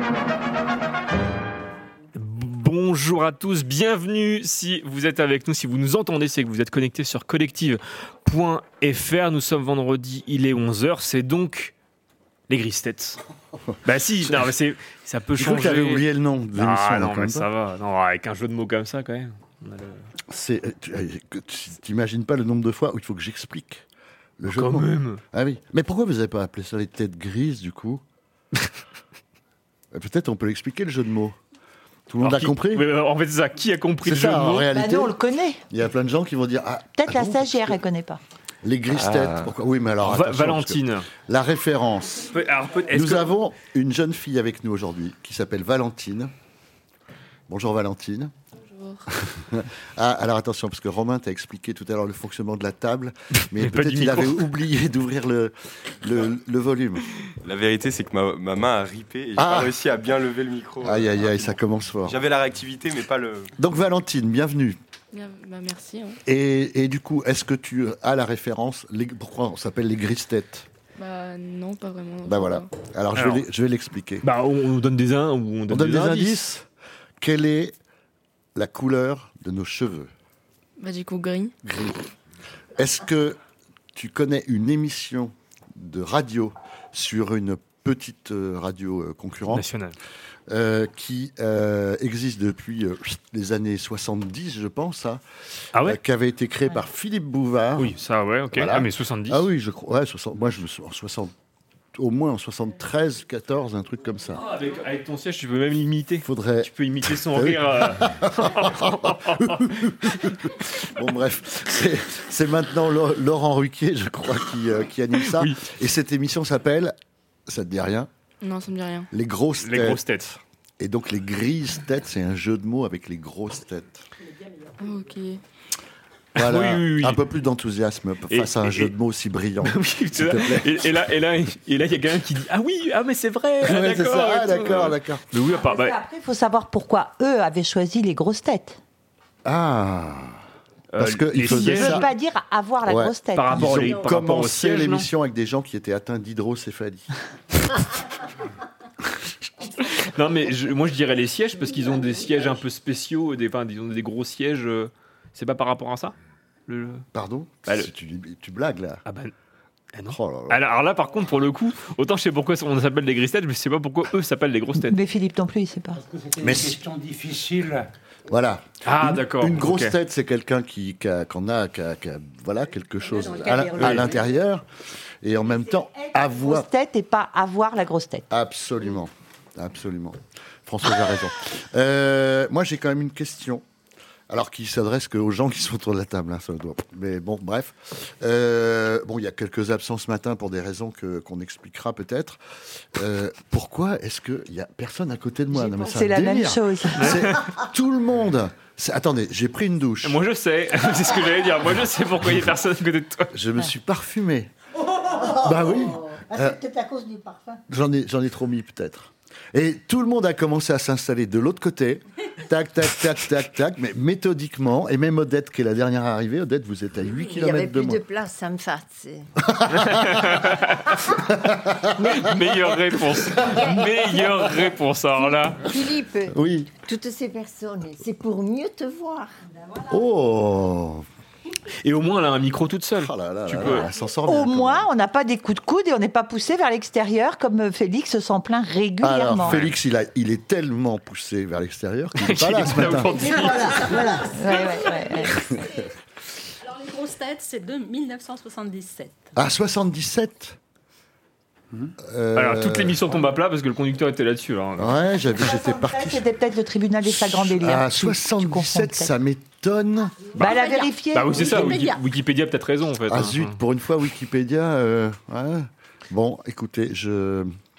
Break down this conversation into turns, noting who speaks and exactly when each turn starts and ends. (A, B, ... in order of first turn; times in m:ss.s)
0:02.1-0:11.7 A
0:12.5-0:13.2 A
0:13.8-0:20.0 A
0:15.4-0:17.5 B
0:20.3-0:23.8 B
0:24.4-0:28.0 B
0:24.5-0:25.2 A
0:29.9-0:31.4 B
0:32.1-0:32.9 B
0:32.2-0:34.7 A
0:34.0-0:35.2 B
0:34.7-0:35.6 C
0:35.7-0:37.8 B
0:37.0-0:38.2 C
0:38.6-0:42.3 B
0:38.9-0:39.5 D
0:40.0-0:41.1 A
0:42.3-0:43.3 A
0:42.9-0:46.3 B
0:47.5-0:48.3 B
0:48.6-0:49.1 E
0:49.2-0:57.0 B
0:53.4-0:54.5 A
0:57.4-1:03.5 D
0:59.4-0:59.8 B
1:00.8-1:02.2 B
1:03.6-1:04.8 B
1:05.1-1:06.2 E
1:06.2-1:10.7 B
1:11.0-1:12.7 E
1:12.2-1:14.2 B
1:13.1-1:13.4 A
1:14.2-1:16.4 A
1:15.7-1:16.6 B
1:17.2-1:17.8 B
1:18.6-1:20.1 B
1:20.8-1:21.5 E
1:21.6-1:22.0 B
1:22.8-1:23.4 B
1:23.9-1:29.6 B
1:29.5-1:30.0 A
1:30.5-1:35.2 B
1:35.7-1:38.0 B
1:37.8-1:39.5 A
1:38.5-1:41.3 B
1:41.9-1:44.4 B
1:44.4-1:50.4 A
1:46.2-1:56.9 B
1:55.3-1:55.6 A
1:57.5-1:58.1 B
1:58.4-1:59.1 E
1:59.1-2:00.0 B
1:59.6-2:00.4 A
2:00.8-2:04.0 B
2:04.8-2:05.4 E
2:06.3-2:07.2 A
2:06.3-2:10.8 B
2:08.3-2:08.9 A
2:09.6-2:16.0 A
2:13.6-2:15.2 B
2:15.5-2:18.8 C
2:19.4-2:20.4 B
2:20.9-2:22.1 A
2:21.0-2:22.0 B
2:21.4-2:23.8 C
2:22.9-2:27.1 B
2:23.4-2:25.1 A
2:29.8-2:36.1 A
2:36.7-2:37.1 A
2:37.1-2:39.0 B
2:39.1-2:39.3 A
2:39.9-2:45.0 A
2:40.1-2:40.6 B
2:44.8-2:46.0 C
2:45.9-2:47.9 F
2:46.4-2:46.8 B
2:48.3-2:54.6 B
2:48.8-2:50.0 A
2:53.0-2:54.3 G
2:53.8-2:54.1 A
2:55.2-2:56.7 B
2:55.4-2:58.3 C
2:58.3-3:03.6 B
3:04.3-3:12.4 B
3:12.9-3:20.2 B
3:15.5-3:17.2 C
3:17.0-3:17.4 A
3:20.0-3:23.3 A
3:23.3-3:24.5 B
3:24.9-3:27.6 H
3:25.3-3:26.6 B
3:27.7-3:38.0 B
3:37.1-3:39.3 I
3:39.5-3:40.3 B
3:39.7-3:40.9 A
3:41.4-3:42.0 B
3:42.0-3:45.6 A
3:43.4-3:43.8 I
3:45.2-3:49.3 I
3:46.3-3:46.7 B
3:49.9-3:51.0 B
3:51.8-3:53.9 A
3:53.0-3:54.9 B
3:54.2-3:59.6 C
3:59.0-4:03.2 B
3:59.4-3:59.7 A
4:02.2-4:03.8 A
4:03.2-4:05.6 G
4:03.3-4:04.3 H
4:04.3-4:05.4 C
4:06.6-4:09.3 G
4:09.4-4:10.6 B
4:12.0-4:13.0 B
4:12.3-4:15.0 A
4:14.8-4:16.2 B
4:15.4-4:19.1 C
4:17.0-4:20.2 B
4:20.4-4:21.8 C
4:20.4-4:22.0 G
4:21.1-4:23.6 A
4:23.1-4:27.5 B